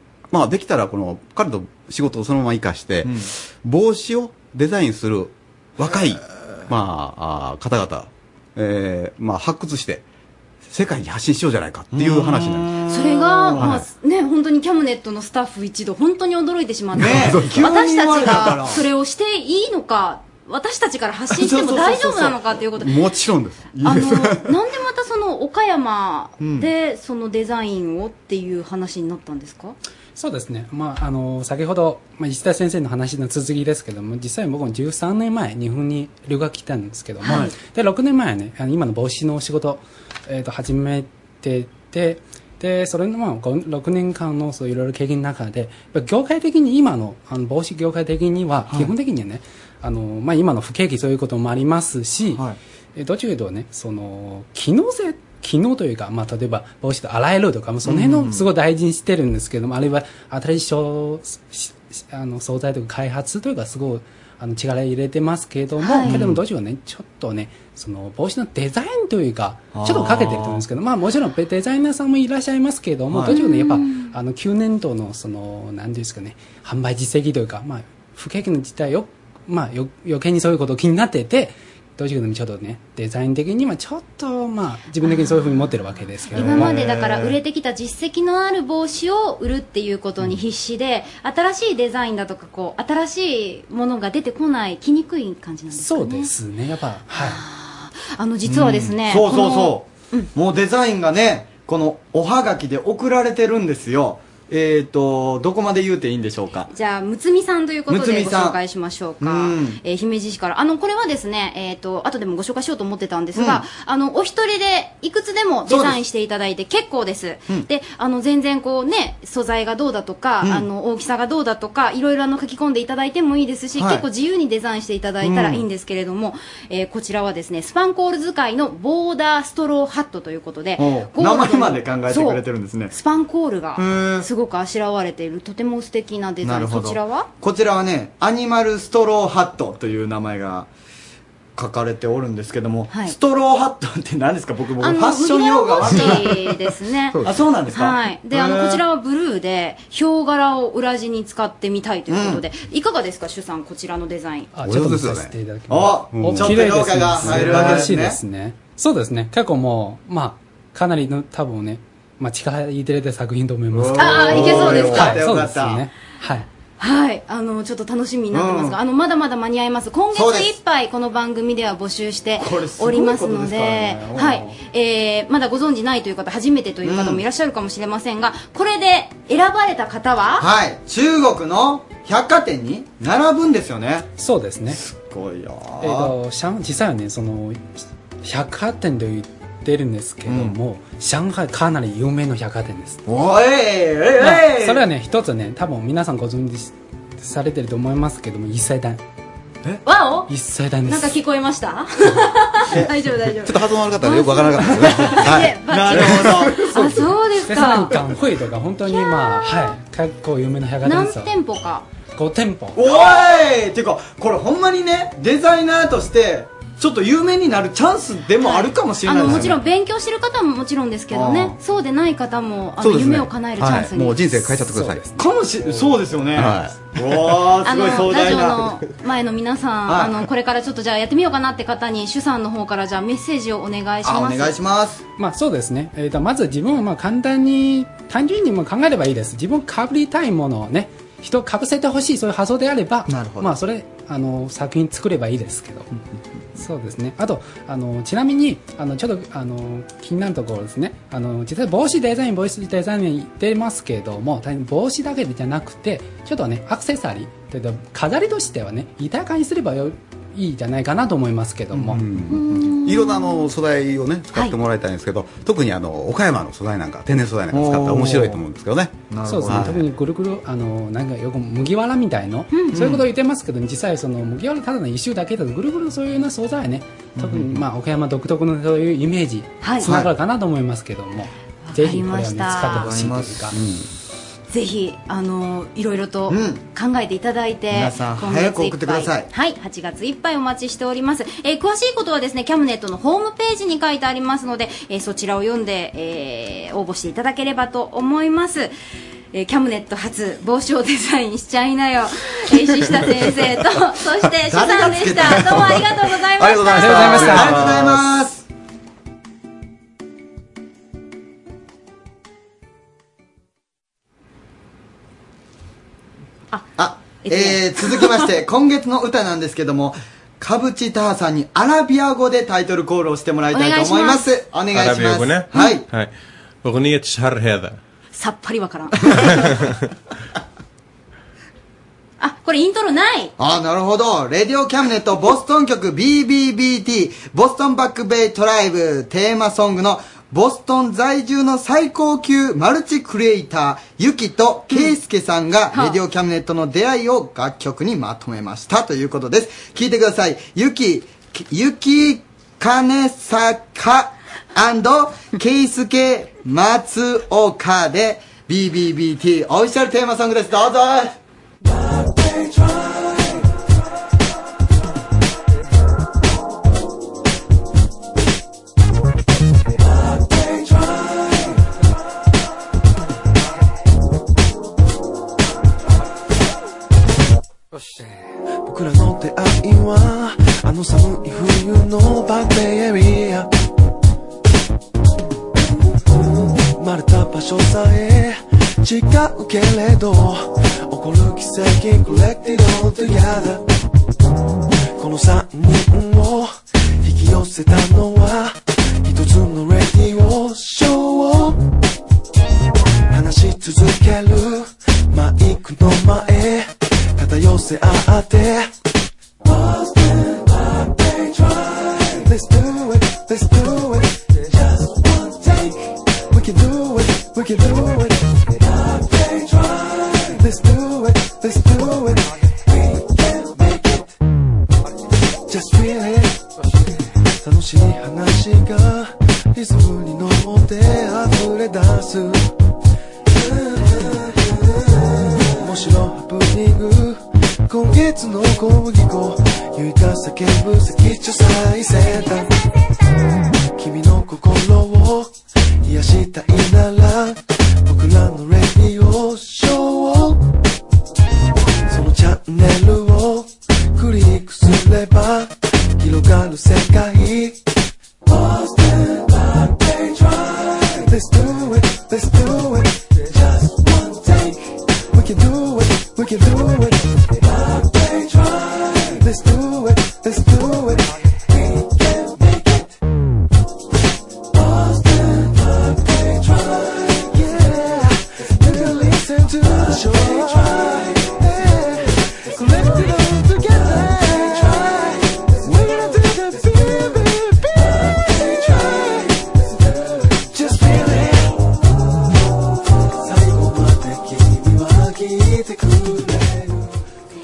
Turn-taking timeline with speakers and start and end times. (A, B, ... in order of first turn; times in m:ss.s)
0:00.3-0:10.0 A
0:10.6-0:12.8 A
0:11.9-0:13.8 B
0:12.9-0:22.9 C
0:13.6-0:13.8 A
0:16.9-0:18.8 B
0:17.0-0:17.6 A
0:21.3-0:22.4 B
0:22.8-0:24.5 A
0:23.8-0:29.8 C
0:26.4-0:26.7 B
0:30.2-0:52.4 D
0:37.2-0:37.5 C
0:53.0-1:26.8 D
0:57.8-0:58.5 B
1:05.8-1:06.2 C
1:06.1-1:06.4 B
1:09.7-1:10.6 B
1:13.1-1:13.4 B
1:13.3-1:14.1 C
1:25.0-1:25.7 C
1:26.3-1:36.3 C
1:26.4-1:27.4 B
1:35.7-1:37.4 D
1:37.1-1:40.3 C
1:38.4-1:46.7 B
1:46.7-2:17.3 C
1:47.9-1:48.6 B
1:49.2-1:49.8 B
1:53.4-1:53.6 B
1:55.7-1:56.0 B
2:00.4-2:00.6 B
2:03.8-2:04.1 B
2:05.2-2:05.6 B
2:10.8-2:12.9 B
2:13.8-2:14.3 B
2:16.4-2:20.7 B
2:21.6-2:26.7 B
2:22.9-2:23.1 C
2:24.8-2:34.5 C
2:27.2-2:28.8 B
2:32.1-2:32.4 B
2:34.5-2:46.5 D
2:34.6-2:35.3 A
2:35.7-2:38.2 B
2:36.1-2:36.6 A
2:37.2-2:37.8 A
2:43.7-2:45.8 B
2:44.0-2:45.2 C
2:46.8-3:00.5 C
2:48.3-2:48.8 B
2:50.1-2:50.5 B
2:52.4-2:54.5 B
2:56.8-2:57.2 B
3:00.4-3:04.1 B
3:04.2-3:04.8 D
3:04.7-3:06.1 B
3:05.8-3:13.0 D
3:10.3-3:10.6 B
3:13.1-3:14.8 B
3:14.2-3:19.0 D
3:19.8-3:20.3 C
3:20.3-3:21.2 D
3:20.9-3:28.0 C
3:23.4-3:26.5 A
3:25.2-3:26.7 B
3:26.7-3:31.3 D
3:30.8-3:31.9 C
3:32.1-3:32.8 D
3:32.8-3:39.6 B
3:38.4-3:44.6 C
3:41.1-3:41.6 B
3:42.8-3:45.0 A
3:44.7-3:45.2 D
3:45.2-3:48.8 B
3:46.4-3:47.4 A
3:47.6-3:54.6 C
3:49.9-3:50.2 B
3:54.0-3:55.0 B
3:55.2-4:05.9 D
4:03.1-4:03.5 B
4:06.6-4:22.0 D
4:21.7-4:22.1 B
4:21.9-4:29.8 A
4:22.3-4:23.5 C
4:27.5-4:28.4 B
4:29.1-4:29.6 B
4:29.2-4:43.6 D
4:32.5-4:32.8 C
4:32.7-4:33.0 B
4:37.2-4:37.6 B
4:39.6-4:39.9 C
4:39.8-4:40.1 B
4:41.7-4:42.9 C
4:42.7-4:43.4 B
4:43.5-4:43.9 A
4:44.5-4:58.7 C
4:46.3-4:46.6 B
4:47.7-4:49.3 B
4:59.3-5:07.4 C
5:04.5-5:06.0 B
5:06.4-5:08.1 A
5:06.8-5:07.7 D
5:07.0-5:08.4 B
5:16.5-5:18.3 C
5:16.8-5:25.8 B
5:23.5-5:24.3 C
5:24.7-5:26.1 E
5:26.6-5:27.8 E
5:28.1-5:29.5 C
5:32.2-5:33.3 C
5:33.4-6:01.2 B
5:44.7-5:45.0 C
5:45.7-5:46.0 C
6:02.0-6:02.6 F
6:18.6-6:23.5 F
6:26.4-6:33.6 F
6:35.0-6:41.6 F
6:43.1-6:48.7 F
6:49.4-7:04.2 F
7:05.5-7:06.4 F
7:07.4-7:12.5 F
7:13.3-7:22.6 F
7:23.7-7:30.4 F
7:31.9-7:37.6 F
7:38.2-7:53.0 F
7:54.5-8:11.6 F
8:13.1-8:17.0 F